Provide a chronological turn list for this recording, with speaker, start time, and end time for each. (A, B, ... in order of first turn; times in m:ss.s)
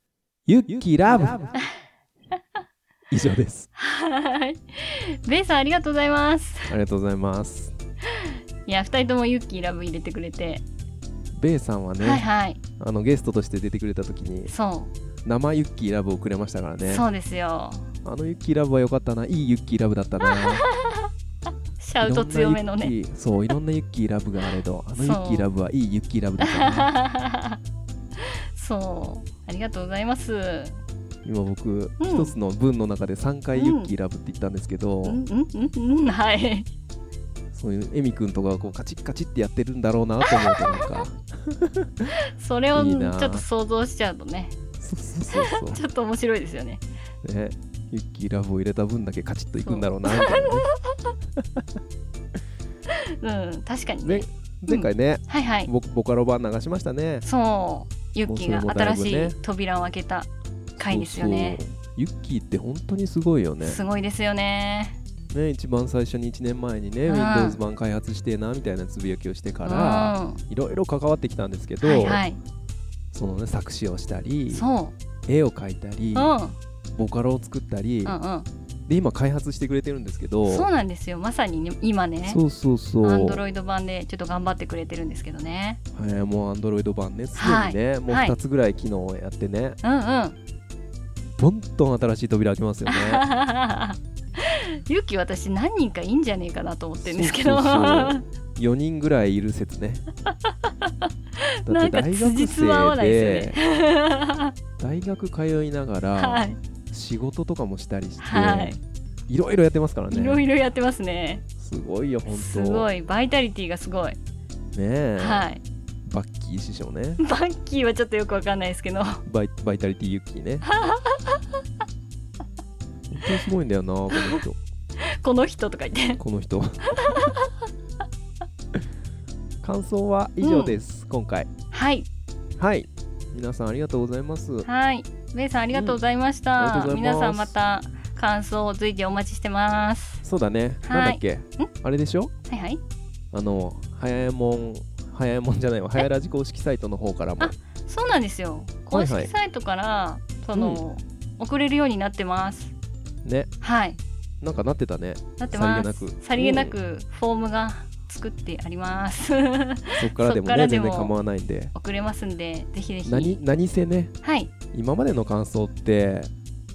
0:00.5-0:01.5 A
0:03.1-0:03.7 A
0:03.8-0:06.8 B
0:06.7-0:07.7 A
0:08.2-0:10.6 B
0:11.3-0:12.3 A
0:12.0-0:12.6 B
0:12.8-0:14.5 A
0:14.5-0:14.9 B
0:15.2-0:17.1 A
0:16.8-0:17.9 B
0:18.0-0:20.6 A
0:20.3-0:21.1 B
0:21.8-0:22.9 B
0:22.0-0:26.9 A
0:25.0-0:25.5 B
0:26.4-0:27.6 B
0:28.2-0:30.8 B
0:31.2-0:35.2 A
0:32.0-0:32.4 B
0:33.6-0:33.9 B
0:35.0-0:36.7 B
0:37.5-0:42.1 A
0:40.3-0:41.1 B
0:42.4-0:44.6 B
0:42.7-0:43.4 A
0:44.8-0:45.8 A
0:45.3-0:46.8 B
0:47.2-0:50.7 A
0:49.6-0:51.1 B
0:51.4-0:51.6 A
0:52.9-0:55.7 B
0:54.0-0:57.2 A
0:57.2-1:01.6 B
0:58.3-0:59.4 A
1:00.8-1:03.8 A
1:03.6-1:05.0 B
1:05.3-1:12.2 A
1:07.1-1:07.6 B
1:09.6-1:10.4 B
1:11.8-1:12.4 B
1:13.1-1:14.6 A
1:14.5-1:15.0 B
1:15.3-1:16.3 A
1:16.2-1:16.6 B
1:16.9-1:18.2 A
1:18.0-1:18.5 B
1:18.9-1:20.7 A
1:20.5-1:22.4 B
1:22.2-1:23.4 A
1:23.0-1:25.8 B
1:25.9-1:29.8 A
1:27.4-1:28.4 B
1:29.8-1:30.4 B
1:31.4-1:33.2 A
1:32.9-1:38.2 B
1:37.0-1:40.0 A
1:40.7-1:44.5 B
1:41.7-1:43.6 A
1:44.8-1:48.8 A
1:46.2-1:46.6 B
1:48.2-1:48.8 B
1:49.3-1:50.4 A
1:50.1-1:51.4 B
1:51.6-1:52.9 A
1:52.3-1:54.2 B
1:54.7-1:55.5 A
1:55.2-1:55.6 B
1:56.0-1:57.2 A
1:57.2-1:59.2 B
1:59.2-2:00.6 A
2:00.7-2:01.4 B
2:03.1-2:04.6 A
2:05.2-2:06.2 B
2:06.2-2:07.3 A
2:06.9-2:07.5 B
2:09.6-2:11.5 A
2:10.4-2:10.8 B
2:11.7-2:12.1 B
2:12.6-2:14.7 A
2:14.6-2:20.2 B
2:15.7-2:16.0 A
2:16.6-2:17.6 A
2:20.2-2:22.3 A
2:20.9-2:21.7 B
2:22.5-2:22.8 B
2:23.3-2:27.6 A
2:27.4-2:32.7 B
2:28.9-2:29.3 A
2:30.5-2:30.8 A
2:33.2-2:33.5 A
2:33.6-2:34.0 B
2:34.4-2:36.8 A
2:35.4-2:41.1 B
2:40.0-2:41.7 A
2:41.8-2:43.4 B
2:43.1-2:44.1 A
2:44.2-2:44.5 B
2:44.7-2:46.3 A